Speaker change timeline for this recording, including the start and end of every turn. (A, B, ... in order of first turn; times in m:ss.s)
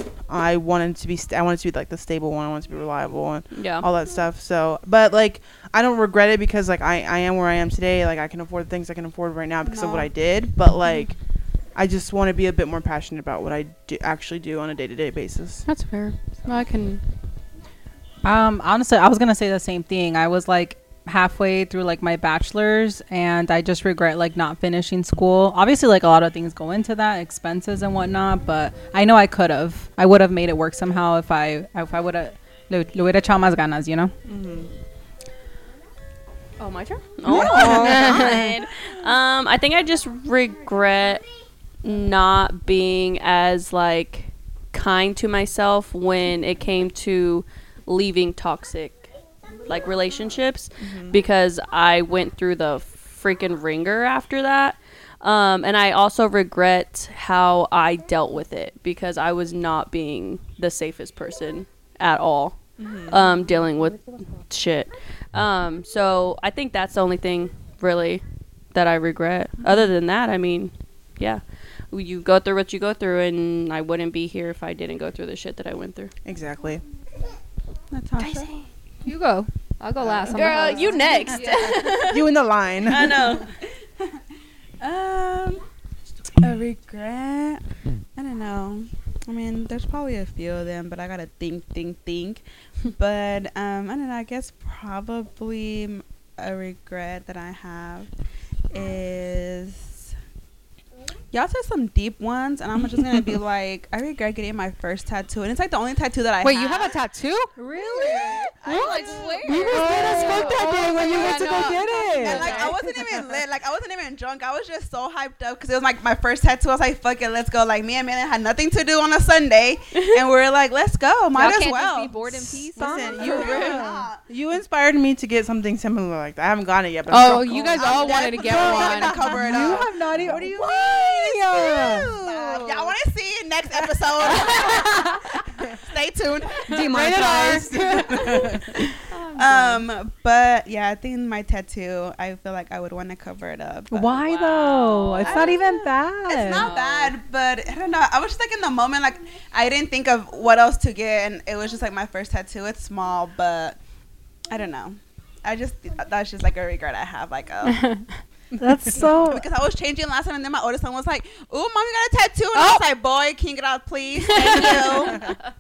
0:00.3-0:11.2 A
0:03.5-0:03.9 B
0:09.6-0:10.1 C
0:11.7-0:15.6 A
0:15.6-0:17.0 D
0:18.2-0:34.1 E
0:34.3-0:34.7 A
0:36.6-0:41.2 B
0:37.2-0:38.2 A
0:37.3-0:38.4 E
0:37.6-0:38.4 D
0:41.8-0:49.1 B
0:49.7-1:16.1 B
0:50.8-0:51.2 A
1:02.8-1:03.2 A
1:16.2-1:16.8 A
1:17.9-1:18.5 C
1:18.2-1:18.4 B
1:19.0-1:21.8 F
1:20.0-1:20.5 A
1:20.3-1:23.5 B
1:21.5-1:23.4 A
1:24.8-1:25.6 C
1:26.4-1:27.6 C
1:28.1-1:38.1 C
1:38.7-1:40.1 C
1:41.3-1:47.0 C
1:46.4-1:47.6 D
1:47.6-1:52.8 E
1:47.7-1:50.5 C
1:48.6-1:52.7 F
1:49.5-1:52.8 D
1:52.2-2:04.2 C
1:59.9-2:00.3 B
2:01.3-2:03.8 F
2:02.7-2:08.0 A
2:07.1-2:09.4 D
2:07.5-2:17.2 C
2:08.4-2:12.2 E
2:09.5-2:12.9 A
2:14.4-2:14.7 A
2:16.7-2:18.4 E
2:16.7-2:18.7 A
2:17.0-2:17.7 D
2:19.1-2:19.9 F
2:19.3-2:24.2 C
2:23.9-2:26.7 E
2:24.2-2:25.6 B
2:25.2-2:33.8 C
2:26.5-2:27.1 B
2:34.5-2:37.9 C
2:37.7-2:38.0 D
2:38.6-2:39.4 E
2:38.9-2:45.3 C
2:42.5-2:42.9 D
2:44.3-2:45.1 D